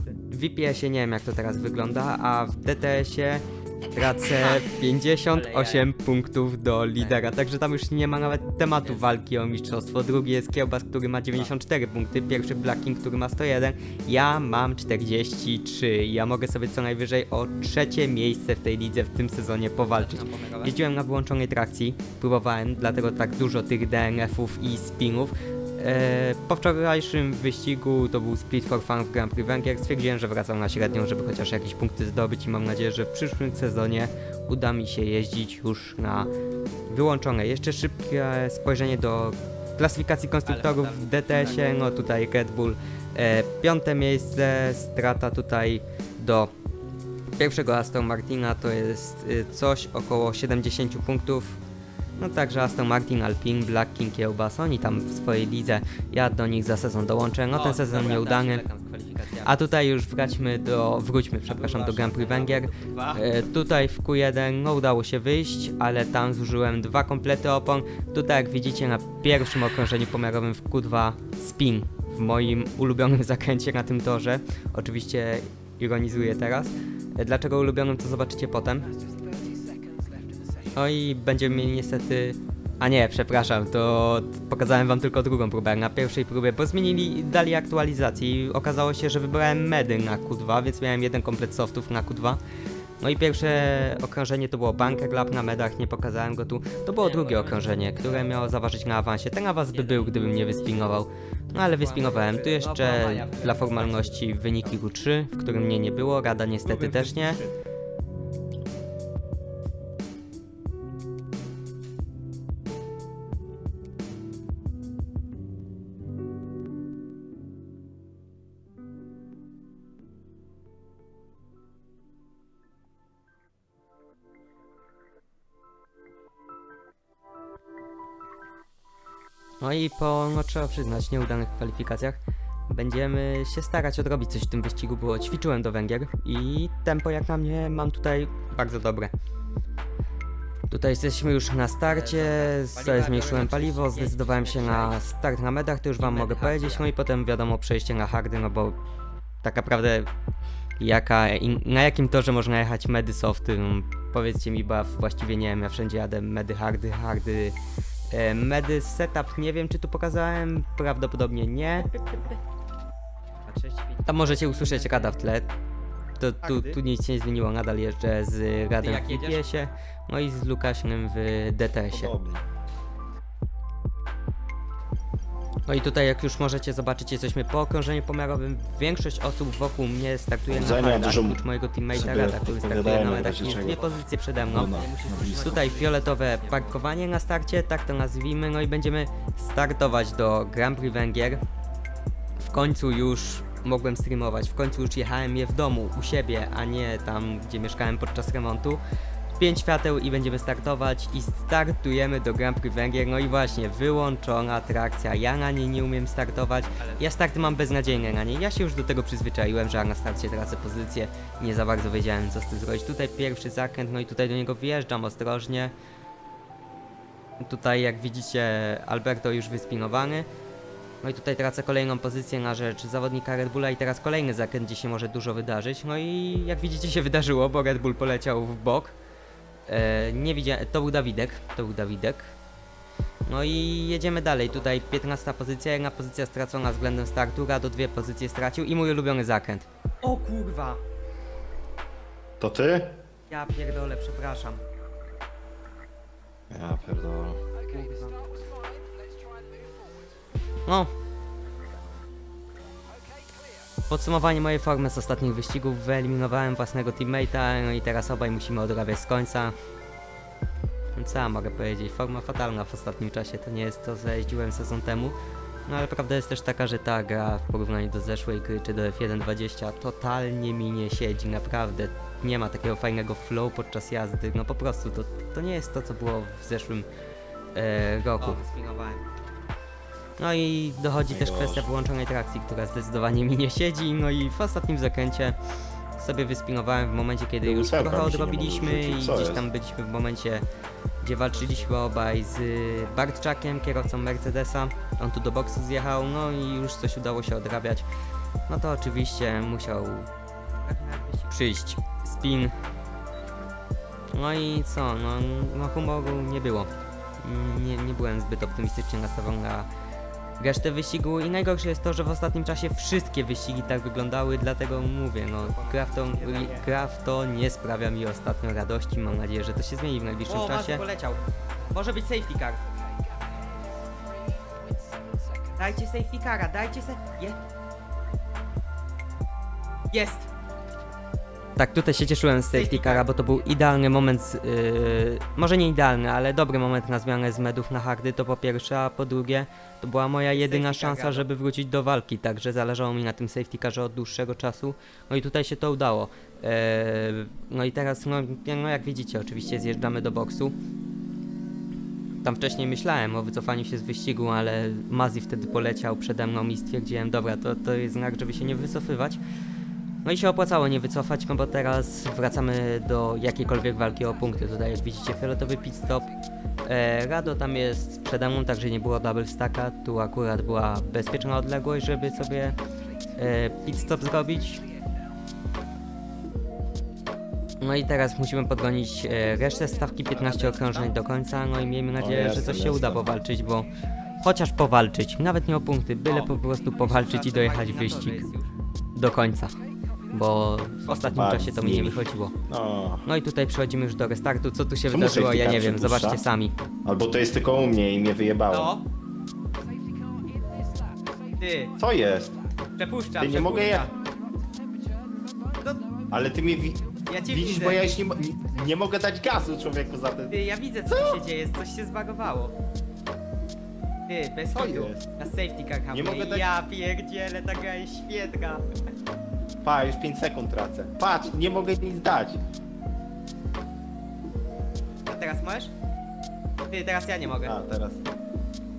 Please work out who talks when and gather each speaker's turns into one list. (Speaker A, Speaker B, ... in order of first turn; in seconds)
Speaker A: 0.3-36.3, 36.9-46.5, 47.4-51.6, 52.2-58.6, 59.4-78.9, 80.7-92.4, 93.0-107.4, 129.6-132.2, 132.7-139.1, 140.7-148.8, 149.4-150.1, 150.8-157.6, 158.1-162.0, 164.1-165.5, 166.2-172.1, 175.7-191.4, 192.4-198.8, 199.4-215.7, 217.4-220.3, 221.0-228.9, 229.7-232.3, 233.3-239.7, 243.3-244.6, 250.7-250.9, 253.9-259.5, 261.0-265.1, 265.7-276.9, 277.6-278.4, 280.2-285.4, 286.0-290.4, 291.0-297.9, 298.5-300.1, 301.3-302.5, 304.1-309.7, 310.4-320.8, 331.6-350.5, 352.2-359.2, 360.0-366.1, 366.6-372.6, 373.2-374.6, 377.6-388.2, 388.9-389.5, 390.1-392.4, 393.1-396.5, 416.6-417.1
Speaker B: 5.3-5.9, 7.0-7.3, 19.8-20.8, 40.5-41.8, 57.5-59.5, 61.5-63.3, 97.0-98.3, 99.7-100.2, 101.8-104.7, 106.7-107.5, 141.8-145.0, 146.0-146.9, 163.5-165.2, 166.4-166.8, 168.8-169.7, 182.9-186.8, 206.8-207.1, 240.0-240.8, 247.7-248.1, 278.2-279.0, 291.3-291.8, 300.6-301.4, 315.4-316.7, 320.3-322.6, 325.6-327.4, 329.9-330.3, 332.5-333.1, 340.3-341.3, 380.2-380.9, 386.1-388.5, 398.5-398.8, 401.4-401.7, 402.8-403.9, 407.1-407.9, 410.3-412.5, 414.1-418.6, 425.1-425.7, 426.7-427.5
Speaker C: 171.9-172.4, 180.5-183.8, 184.4-185.6, 242.4-243.0, 246.5-247.4, 281.1-281.7, 287.4-289.5, 382.0-383.2, 390.9-393.1, 394.9-396.2, 396.9-398.7, 401.8-402.4, 403.1-403.9, 406.1-411.2, 414.5-415.1, 415.9-416.5, 419.6-422.4, 427.4-428.0